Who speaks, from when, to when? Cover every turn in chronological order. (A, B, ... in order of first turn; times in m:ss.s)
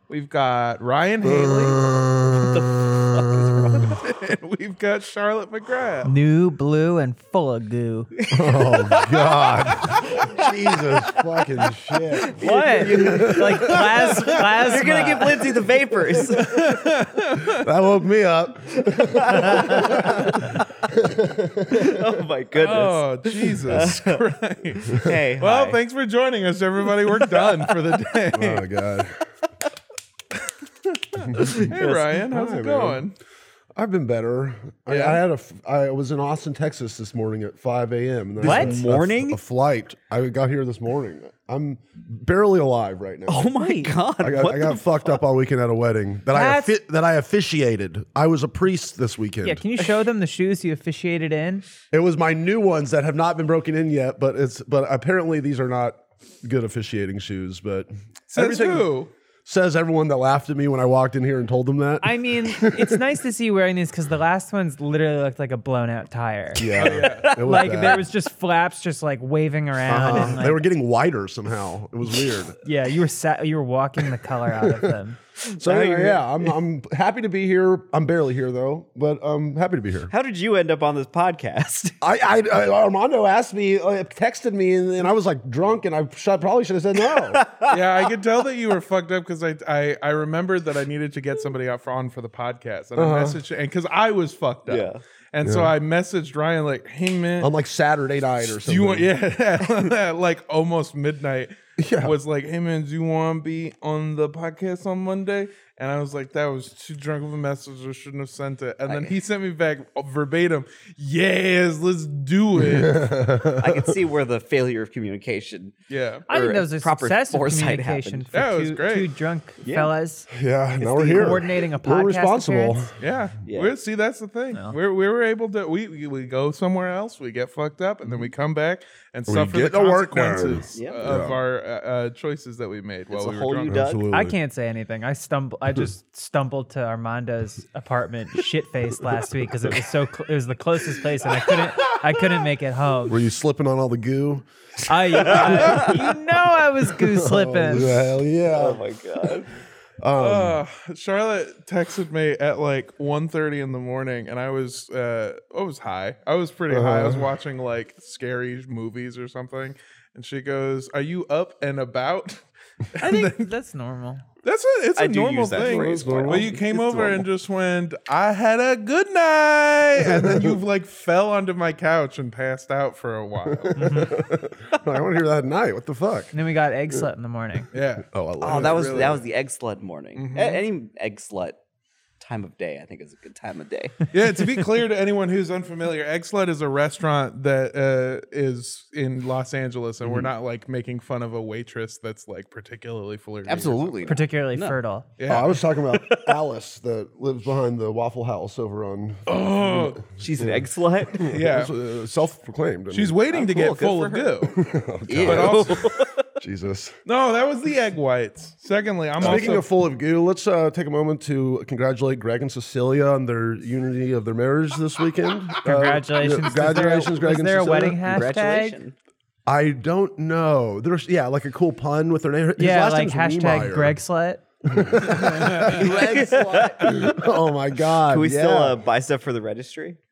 0:00.1-0:01.8 A
0:01.2-0:03.8 B
0:02.3-0:04.0 C
0:03.8-0:06.1 A
0:06.0-0:08.1 D
0:08.2-0:11.3 C
0:08.3-0:14.9 B
0:12.1-0:16.7 C
0:12.3-0:15.5 D
0:16.4-0:17.6 A
0:17.5-0:22.2 B
0:18.8-0:20.7 C
0:21.7-0:24.2 C
0:22.6-0:28.7 A
0:24.8-0:25.8 C
0:27.3-0:27.6 C
0:28.3-0:29.2 B
0:31.1-0:33.2 A
0:31.2-0:31.7 B
0:31.6-0:32.1 C
0:32.2-0:33.0 B
0:33.8-0:43.5 B
0:34.9-0:35.2 A
0:38.4-0:39.4 C
0:38.4-0:38.7 D
0:43.3-0:45.2 C
0:43.6-0:43.9 D
0:44.2-0:49.6 B
0:46.3-0:46.7 D
0:49.4-0:51.6 D
0:51.9-0:58.9 B
0:58.3-0:59.1 A
0:59.5-1:03.0 B
1:02.0-1:10.6 D
1:06.6-1:08.1 B
1:06.8-1:07.4 A
1:07.2-1:08.0 C
1:09.8-1:12.6 B
1:12.6-1:16.2 D
1:14.6-1:14.9 B
1:15.5-1:20.1 B
1:20.1-1:22.0 C
1:22.0-1:27.4 B
1:27.4-1:27.8 C
1:27.7-1:37.5 A
1:33.0-1:33.4 B
1:34.7-1:35.0 C
1:35.4-1:35.7 B
1:37.4-1:39.1 B
1:38.4-1:53.1 A
1:41.8-1:42.2 B
1:52.6-1:54.0 B
1:53.6-1:55.8 C
1:55.9-1:56.2 A
1:56.3-1:58.2 C
1:56.3-2:00.3 D
1:58.3-1:59.2 A
1:59.6-1:59.9 C
2:00.3-2:02.9 B
2:00.8-2:02.8 D
2:00.9-2:01.4 C
2:03.0-2:13.8 A
2:03.5-2:03.7 C
2:09.3-2:11.4 B
2:10.8-2:11.1 C
2:13.1-2:14.1 C
2:13.7-2:14.4 B
2:14.1-2:23.2 D
2:23.1-2:24.5 B
2:24.8-2:28.0 D
2:25.0-2:26.1 B
2:25.2-2:26.0 C
2:27.0-2:29.4 B
2:28.5-2:29.5 C
2:30.0-2:30.6 B
2:30.2-2:43.5 A
2:36.7-2:37.3 B
2:43.0-2:44.2 D
2:44.4-2:54.1 A
2:45.0-2:46.6 C
2:45.6-2:47.3 B
2:50.0-2:50.6 B
2:53.5-2:56.4 B
2:53.8-2:54.2 D
2:56.3-2:57.7 D
2:57.7-2:59.2 A
2:58.1-2:59.2 B
2:58.4-3:01.6 C
3:00.2-3:00.6 A
3:02.2-3:04.0 C
3:04.1-3:14.1 A
3:13.5-3:14.8 C
3:14.1-3:15.1 D
3:15.2-3:15.5 A
3:15.3-3:23.2 B
3:15.9-3:16.3 C
3:19.3-3:20.0 A
3:20.2-3:21.4 C
3:21.2-3:21.7 A
3:22.9-3:24.6 A
3:23.3-3:24.6 C
3:24.5-3:25.8 B
3:25.1-3:26.2 C
3:25.2-3:25.9 A
3:26.4-3:26.9 B
3:27.1-3:29.7 A
3:29.2-3:38.0 B
3:35.6-3:38.8 D
3:38.0-3:38.9 C
3:39.5-3:44.0 B
3:42.6-3:44.4 D
3:44.6-3:48.8 B
3:45.1-3:46.1 A
3:45.8-3:47.2 C
3:46.8-3:47.1 A
3:48.1-3:50.0 C